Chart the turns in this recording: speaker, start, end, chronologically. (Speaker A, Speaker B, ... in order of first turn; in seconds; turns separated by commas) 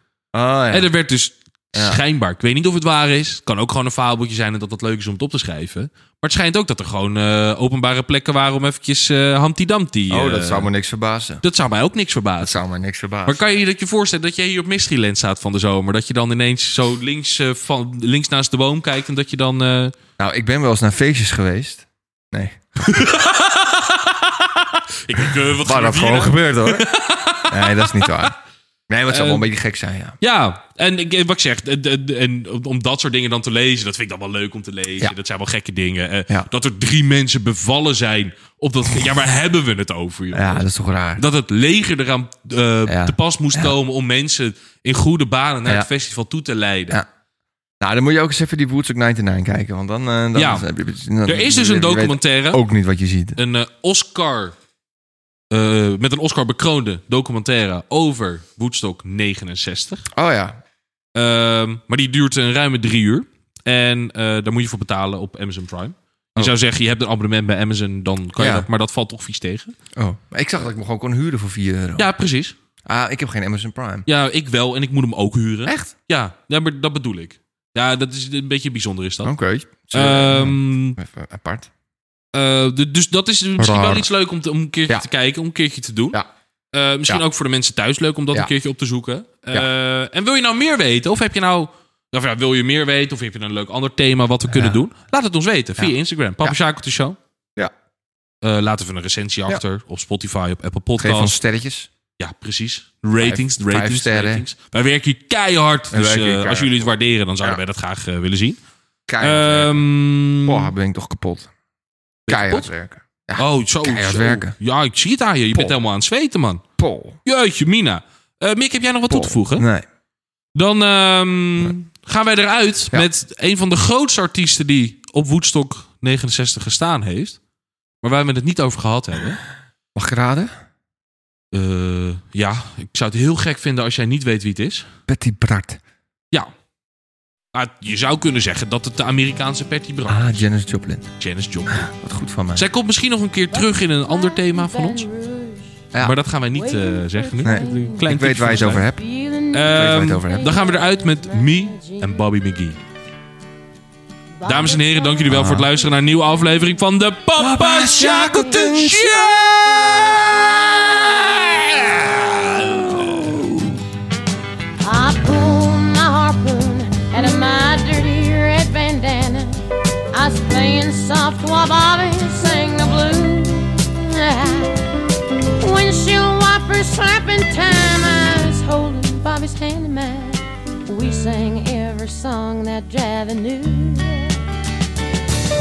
Speaker A: 0.3-0.9, Speaker B: 0.7-10.7, Speaker A: 1.7-2.0, Speaker A: 10.1-11.4, Speaker B: 11.4-12.6, Speaker A: 12.4-13.4, Speaker B: 13.2-19.9, Speaker A: 20.2-22.9, Speaker B: 22.8-28.3, Speaker A: 25.4-26.9, Speaker A: 27.5-28.4, Speaker A: 28.9-30.2, Speaker B: 29.1-29.4, Speaker B: 30.2-40.6, Speaker A: 40.3-41.2, Speaker B: 41.2-47.0, Speaker A: 42.9-43.7, Speaker A: 47.8-53.4, Speaker B: 50.3-50.7, Speaker B: 51.2-52.6, Speaker B: 53.4-54.5, Speaker B: 55.5-60.1, Speaker A: 60.1-60.6, Speaker B: 61.1-69.8, Speaker A: 68.4-68.7, Speaker A: 69.9-72.1, Speaker B: 72.0-72.5, Speaker A: 72.8-74.0, Speaker B: 74.0-79.3, Speaker A: 79.2-81.7, Speaker B: 79.9-81.0, Speaker B: 82.3-86.2, Speaker A: 83.6-84.1, Speaker B: 86.7-97.2, Speaker A: 94.5-94.8, Speaker A: 95.8-96.6, Speaker B: 98.4-101.4, Speaker A: 101.0-101.9, Speaker B: 102.2-108.6, Speaker A: 103.2-104.4, Speaker A: 105.9-106.9, Speaker A: 109.1-109.8, Speaker B: 109.2-110.7, Speaker A: 110.4-111.5, Speaker B: 112.3-112.7, Speaker A: 112.3-114.5, Speaker B: 113.3-116.6, Speaker A: 116.8-117.2, Speaker B: 117.2-119.7, Speaker A: 119.1-119.8, Speaker B: 120.5-127.4, Speaker B: 128.0-129.4, Speaker A: 129.9-130.5, Speaker B: 131.5-134.9, Speaker A: 135.1-135.8, Speaker B: 137.5-140.4, Speaker A: 140.1-141.1, Speaker B: 141.2-141.9, Speaker A: 141.7-142.7, Speaker B: 142.5-145.1, Speaker C: 143.5-145.8, Speaker B: 146.0-148.9, Speaker C: 146.5-148.1, Speaker A: 147.4-149.0, Speaker C: 148.9-152.3, Speaker B: 149.5-152.8, Speaker A: 149.7-150.6, Speaker C: 154.4-156.2, Speaker B: 154.4-159.1, Speaker A: 155.3-155.7, Speaker A: 157.4-163.8, Speaker B: 162.7-163.2, Speaker C: 164.8-174.9, Speaker C: 175.6-184.4